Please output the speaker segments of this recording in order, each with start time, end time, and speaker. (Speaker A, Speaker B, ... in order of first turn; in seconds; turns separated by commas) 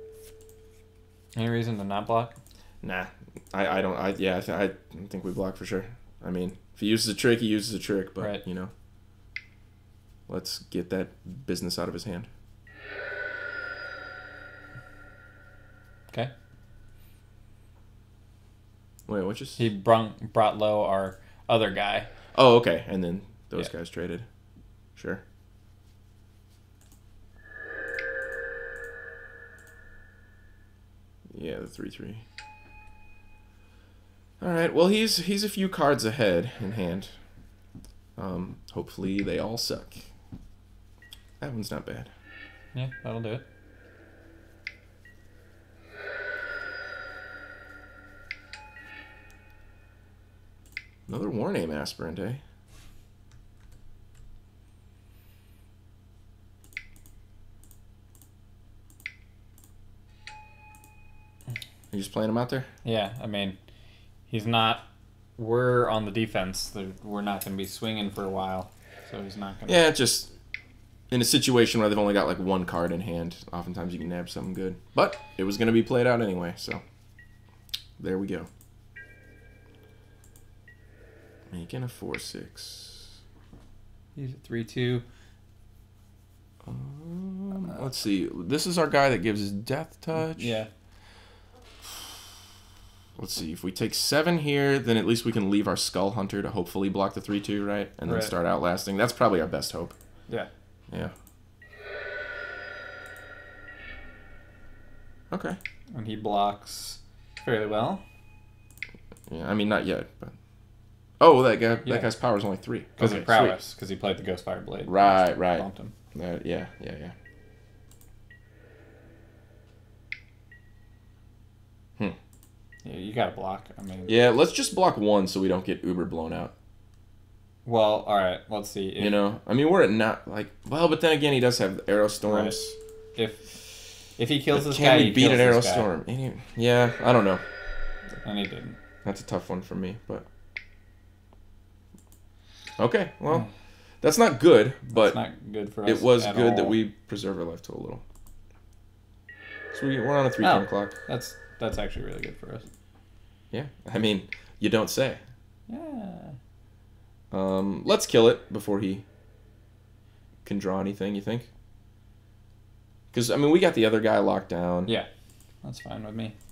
Speaker A: 1.3-2.3, Speaker B: 2.8-8.7, Speaker B: 10.3-12.3, Speaker B: 19.1-19.6, Speaker A: 19.6-22.1, Speaker B: 22.3-24.2, Speaker B: 24.9-25.2, Speaker B: 31.3-32.2, Speaker B: 34.4-37.1, Speaker B: 38.2-40.0, Speaker B: 41.4-42.1, Speaker A: 42.7-43.4, Speaker B: 51.1-52.4, Speaker B: 61.9-62.7, Speaker A: 62.8-63.6, Speaker A: 64.3-64.8, Speaker A: 65.4-69.8, Speaker B: 69.7-70.3, Speaker B: 71.1-76.8, Speaker B: 78.0-78.5, Speaker B: 81.5-83.1, Speaker A: 84.2-85.0, Speaker B: 86.6-90.6, Speaker A: 90.1-90.7, Speaker B: 93.2-100.0, Speaker A: 98.0-98.3, Speaker B: 105.3-105.6, Speaker A: 105.9-108.0, Speaker B: 109.3-110.3, Speaker B: 111.2-113.6, Speaker A: 111.8-112.1, Speaker A: 113.0-115.9, Speaker B: 114.8-117.1, Speaker A: 122.8-124.1, Speaker B: 124.1-126.5, Speaker A: 127.6-129.2, Speaker B: 129.0-132.8, Speaker A: 132.2-132.5, Speaker A: 133.2-135.9, Speaker B: 134.5-137.4, Speaker A: 138.2-138.8, Speaker B: 139.0-140.2, Speaker B: 142.8-143.5, Speaker B: 144.0-145.2, Speaker A: 144.9-146.8, Speaker B: 145.8-148.0, Speaker B: 149.7-150.9, Speaker A: 150.4-152.7, Speaker B: 153.5-155.2, Speaker A: 155.7-156.3, Speaker B: 157.3-159.0, Speaker B: 160.4-161.5, Speaker B: 163.1-164.9, Speaker A: 165.6-166.3